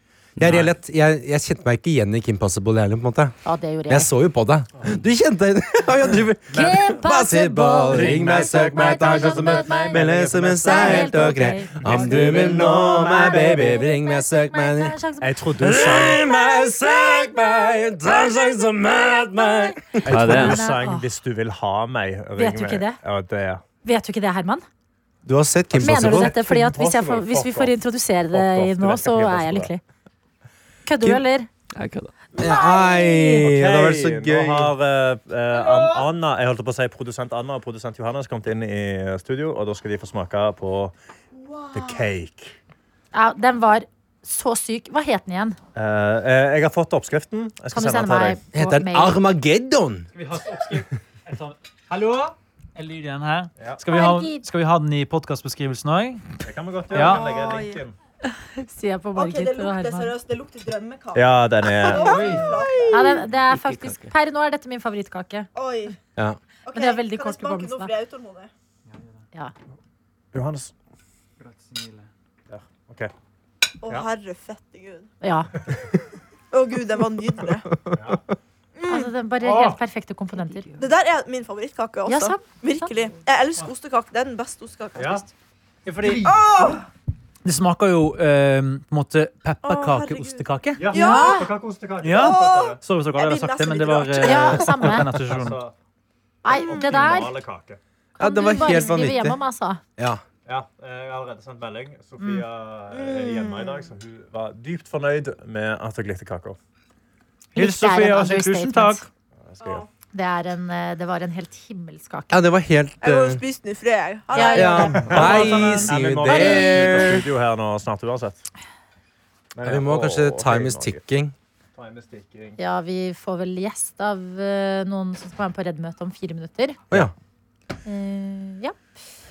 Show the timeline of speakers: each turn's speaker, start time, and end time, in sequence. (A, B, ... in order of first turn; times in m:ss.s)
0:00.4-0:15.0 A
0:00.4-0:00.7 B
0:03.4-0:04.1 C
0:06.5-0:10.0 C
0:07.9-0:13.8 B
0:10.6-0:15.3 C
0:11.8-0:12.6 D
0:15.2-0:16.3 B
0:15.5-0:20.3 A
0:19.4-0:21.1 C
0:20.0-0:23.6 B
0:20.0-0:20.6 D
0:22.4-0:23.0 C
0:23.8-0:24.6 C
0:25.2-0:26.3 A
0:25.7-0:27.8 B
0:25.8-0:29.8 C
0:28.3-0:29.7 B
0:30.8-0:31.5 C
0:31.7-0:32.1 D
0:32.4-0:33.5 C
0:32.4-0:34.7 A
0:33.4-0:40.9 B
0:35.5-0:36.1 E
0:41.3-0:42.1 E
0:41.7-0:42.6 B
0:43.1-0:45.6 C
0:45.7-0:48.4 B
0:47.7-0:49.2 C
0:48.5-0:50.1 A
0:50.1-0:57.4 F
0:53.9-0:54.5 C
0:56.4-0:57.9 B
0:56.9-0:57.8 E
0:58.6-1:00.1 C
0:59.1-1:03.2 E
1:01.1-1:02.4 B
1:01.9-1:02.6 F
1:02.9-1:05.5 C
1:03.3-1:04.1 D
1:05.5-1:06.0 E
1:06.6-1:08.5 E
1:06.7-1:07.9 C
1:10.3-1:10.7 B
1:11.4-1:12.1 F
1:12.5-1:13.1 B
1:13.8-1:15.1 E
1:15.2-1:15.5 C
1:16.5-1:17.8 E
1:17.9-1:18.2 B
1:18.8-1:19.1 E
1:18.9-1:20.7 C
1:19.4-1:19.7 B
1:20.8-1:25.3 E
1:22.0-1:22.9 C
1:25.0-1:25.2 B
1:25.8-1:26.4 F
1:26.0-1:26.3 B
1:26.0-1:26.8 E
1:27.4-1:31.3 F
1:29.6-1:31.5 E
1:30.8-1:32.8 B
1:30.9-1:31.5 C
1:32.0-1:35.6 F
1:32.1-1:34.9 E
1:34.2-1:35.1 C
1:35.2-1:35.7 B
1:36.4-1:37.4 C
1:36.5-1:37.8 B
1:36.5-1:37.2 E
1:38.2-1:39.4 A
1:38.2-1:39.8 C
1:40.0-1:40.2 A
1:40.4-1:46.6 B
1:42.2-1:42.4 C
1:42.9-1:43.9 E
1:47.5-1:49.0 F
1:47.6-1:49.0 C
1:49.5-1:49.8 B
1:49.6-1:49.9 E
1:50.1-1:52.4 C
1:52.3-1:53.4 A
1:53.0-1:55.7 E
1:54.3-1:57.2 C
1:54.5-1:57.2 A
1:55.0-1:58.4 B
1:55.2-1:55.8 F
1:59.5-2:01.0 B
1:59.6-2:01.3 A
2:01.8-2:02.6 B
2:02.6-2:06.8 C
2:07.8-2:08.8 C